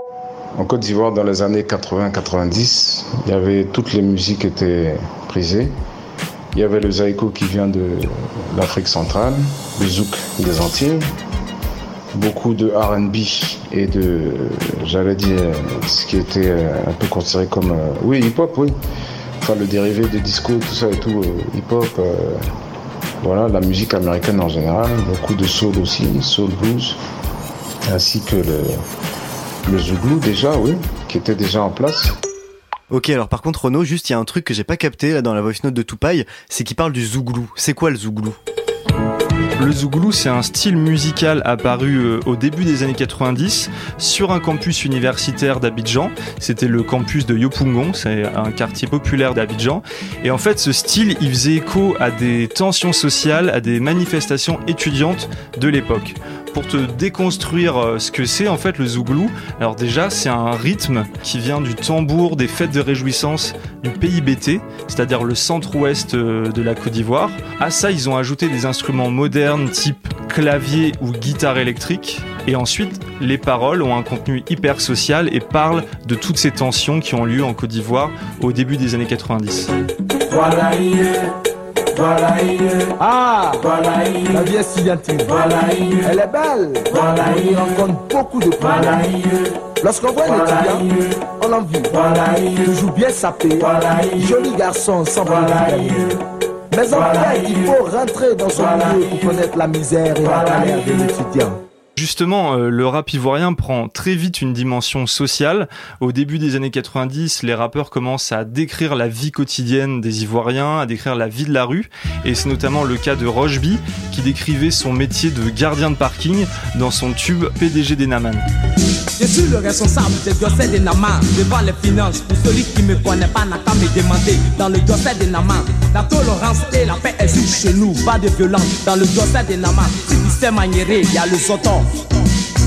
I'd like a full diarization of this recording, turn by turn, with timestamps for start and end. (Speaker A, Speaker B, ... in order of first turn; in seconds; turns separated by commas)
Speaker A: 0.6-5.7, Speaker A: 6.5-11.1, Speaker A: 12.1-18.7, Speaker A: 19.4-22.4, Speaker A: 23.2-27.0, Speaker A: 27.9-28.8, Speaker A: 29.6-32.1, Speaker B: 32.9-38.4, Speaker C: 39.6-79.7, Speaker D: 80.3-81.2, Speaker D: 82.0-96.2, Speaker D: 96.7-101.6, Speaker C: 102.0-118.5, Speaker E: 119.2-131.9